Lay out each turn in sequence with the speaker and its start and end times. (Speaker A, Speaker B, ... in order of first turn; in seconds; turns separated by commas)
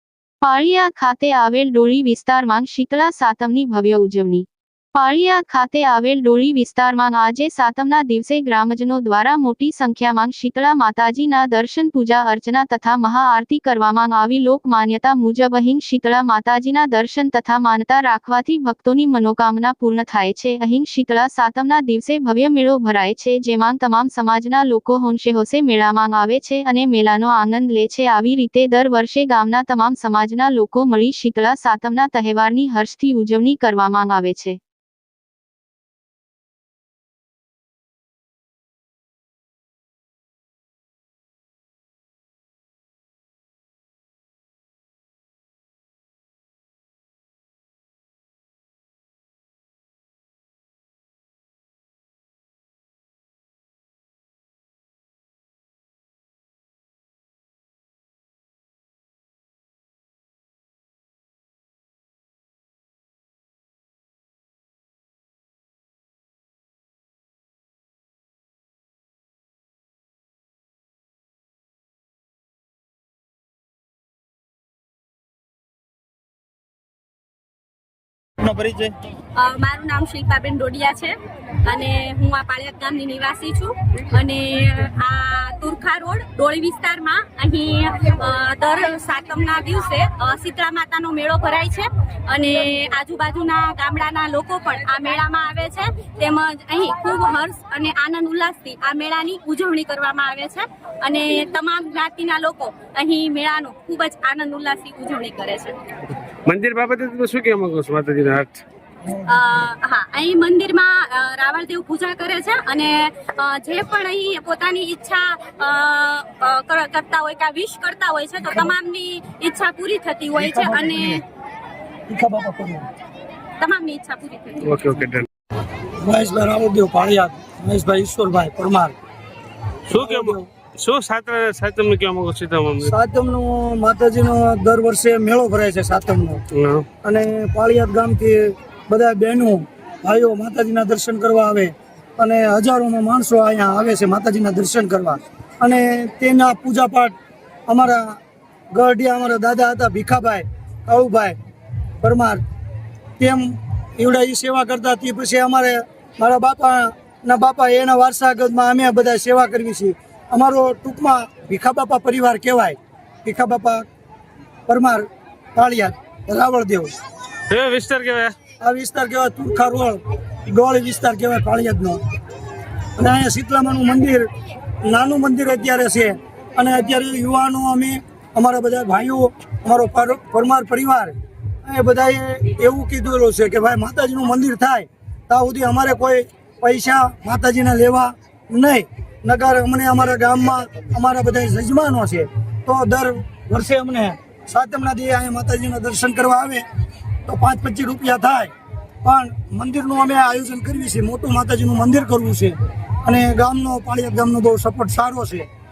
Speaker A: 0.4-34.6, Speaker B: 79.4-81.1, Speaker B: 81.7-105.8, Speaker C: 106.5-108.6, Speaker B: 109.2-121.2, Speaker D: 120.4-121.2, Speaker D: 122.1-122.9, Speaker B: 123.6-124.8, Speaker C: 124.6-125.3, Speaker D: 126.0-128.9, Speaker C: 129.9-132.9, Speaker D: 129.9-130.4, Speaker D: 132.8-136.4, Speaker C: 136.5-136.8, Speaker D: 137.0-147.1, Speaker D: 147.7-148.2, Speaker D: 148.7-151.4, Speaker D: 152.0-152.4, Speaker D: 153.2-163.8, Speaker D: 164.7-166.9, Speaker C: 167.5-168.3, Speaker D: 168.6-172.0, Speaker D: 173.0-174.3, Speaker D: 174.8-196.6, Speaker D: 197.3-198.5, Speaker D: 199.0-205.5